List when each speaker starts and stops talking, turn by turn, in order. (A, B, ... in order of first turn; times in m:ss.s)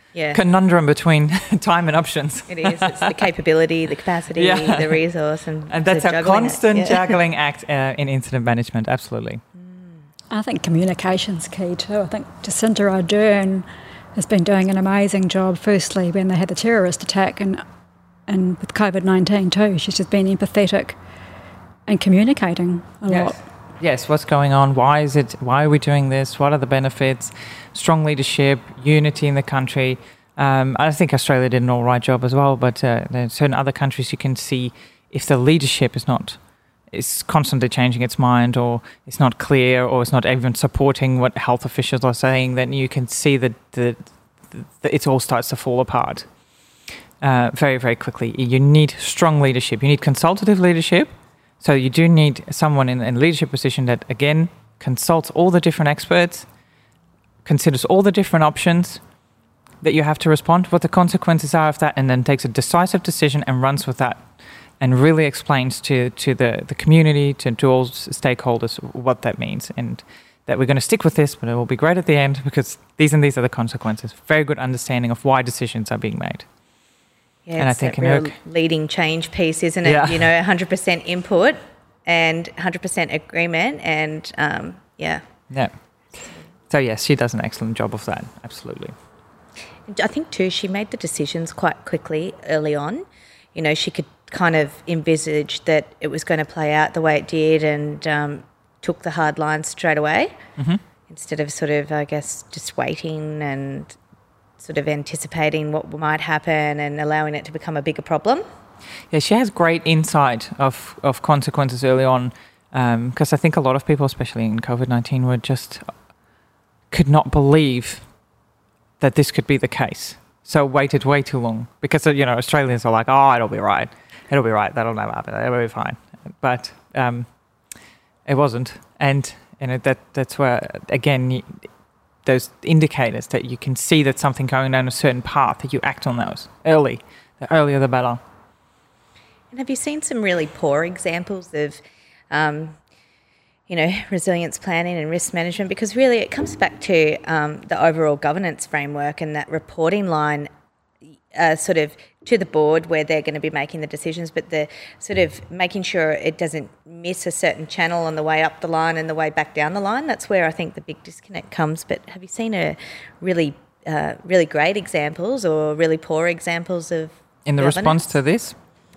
0:00.1-0:00.4 A
0:00.3-0:03.2 B
0:02.5-0:07.2 A
0:04.3-0:05.0 B
0:05.7-0:09.4 B
0:09.6-0:10.0 A
0:10.3-0:17.6 C
0:18.3-0:21.0 C
0:21.9-0:23.4 C
0:23.1-0:36.4 B
0:36.9-0:46.3 B
0:47.2-0:56.5 B
0:57.4-0:59.0 B
0:59.8-1:04.2 B
1:04.8-1:16.4 B
1:17.4-1:25.2 A
1:17.6-1:18.3 B
1:19.8-1:20.3 B
1:25.5-1:25.8 B
1:26.7-1:28.9 B
1:29.9-1:40.3 A
1:41.1-1:44.0 A
1:44.6-1:48.4 A
1:49.1-1:55.9 B
1:56.9-1:58.0 B
1:59.0-2:07.3 B
2:08.3-2:11.6 B
2:12.2-2:18.2 B
2:19.5-2:22.8 A
2:23.7-2:30.5 A
2:31.3-2:48.1 A
2:47.4-2:48.5 B